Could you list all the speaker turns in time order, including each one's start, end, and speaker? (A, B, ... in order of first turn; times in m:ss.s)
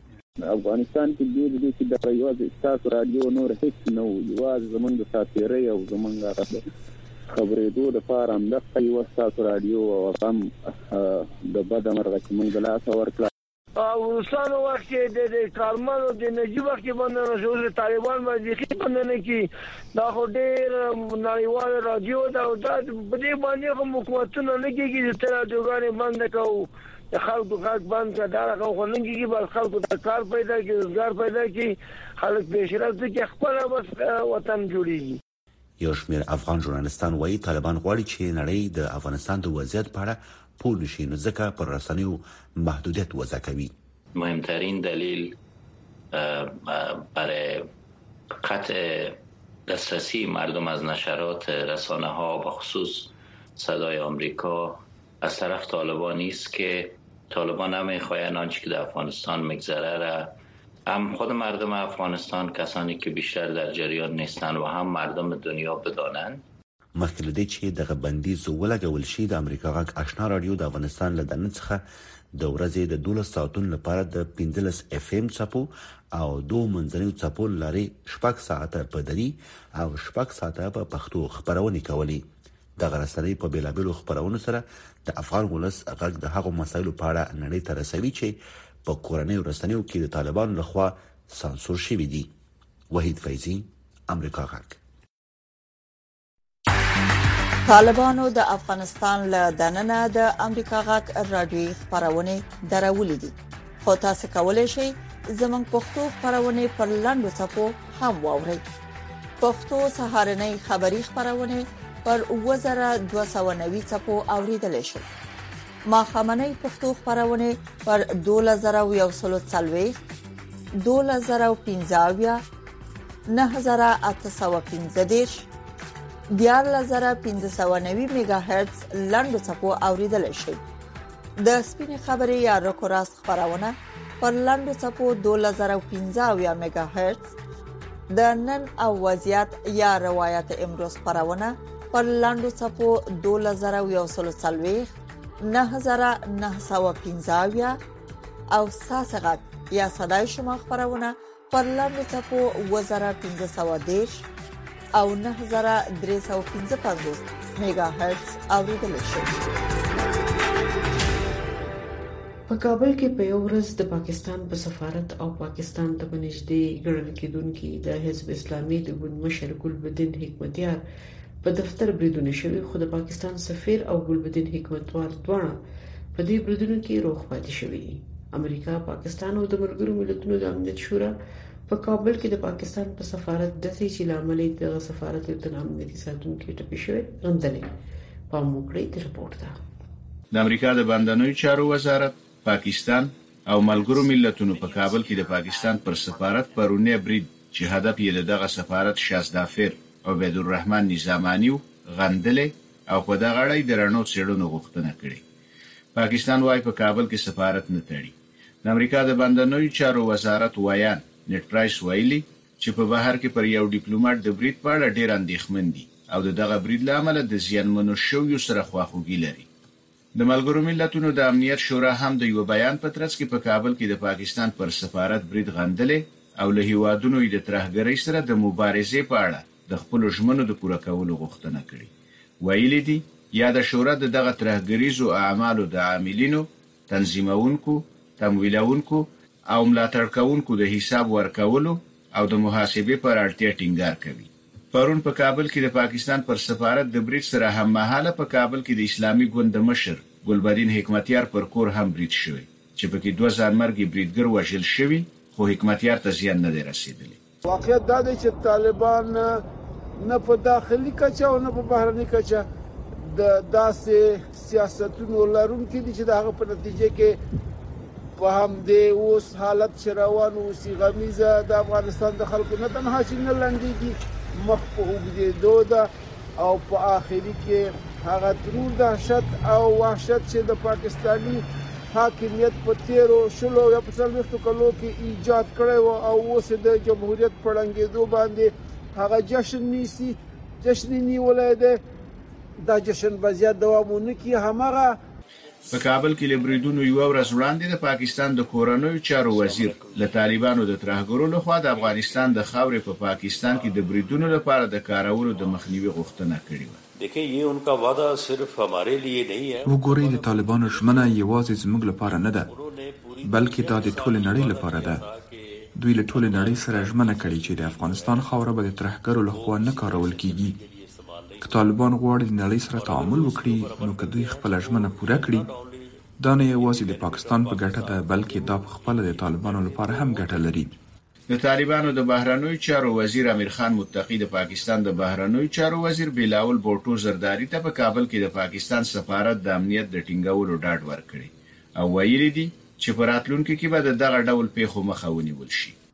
0:00.5-0:06.6 A
0:07.3-0:13.3 A
0:13.8-0:19.4 B
0:20.0-0:35.2 B
0:35.8-0:43.7 C
0:44.2-0:45.3 D
0:46.1-0:47.6 D
0:48.4-1:00.3 D
1:00.9-1:06.4 D
1:07.0-1:11.8 C
1:12.4-1:22.2 C
1:22.8-1:32.3 C
1:32.9-1:34.8 C
1:37.7-1:48.6 E
1:49.4-1:55.1 E
1:55.9-2:00.0 E
2:00.8-2:02.4 E
2:03.3-2:05.5 E
2:06.3-2:10.6 E
2:11.4-2:17.3 E
2:18.1-2:24.9 E
2:25.4-2:27.8 E
2:28.5-2:34.2 E
2:35.0-2:39.4 E
2:42.5-2:50.8 F
2:51.4-2:55.6 F
2:56.1-3:01.2 F
3:01.7-3:07.7 F
3:08.3-3:09.6 F
3:10.3-3:25.2 G
3:25.9-3:28.1 G
3:28.6-3:39.5 G
3:40.2-3:51.9 G
3:52.4-4:17.2 G
4:17.4-4:19.4 H
4:20.0-4:27.2 H
4:28.2-4:51.8 H
4:52.6-4:54.9 H
4:55.7-5:06.8 G
4:59.3-5:00.1 I
5:07.0-5:11.2 I
5:09.6-5:12.5 J
5:12.5-5:15.5 I
5:13.2-5:15.0 J
5:15.8-5:20.6 J
5:16.1-5:18.4 I
5:19.3-5:21.7 I
5:21.4-5:25.5 J
5:22.7-5:25.8 I
5:26.2-5:30.7 J
5:26.4-5:30.5 I
5:31.3-5:45.8 G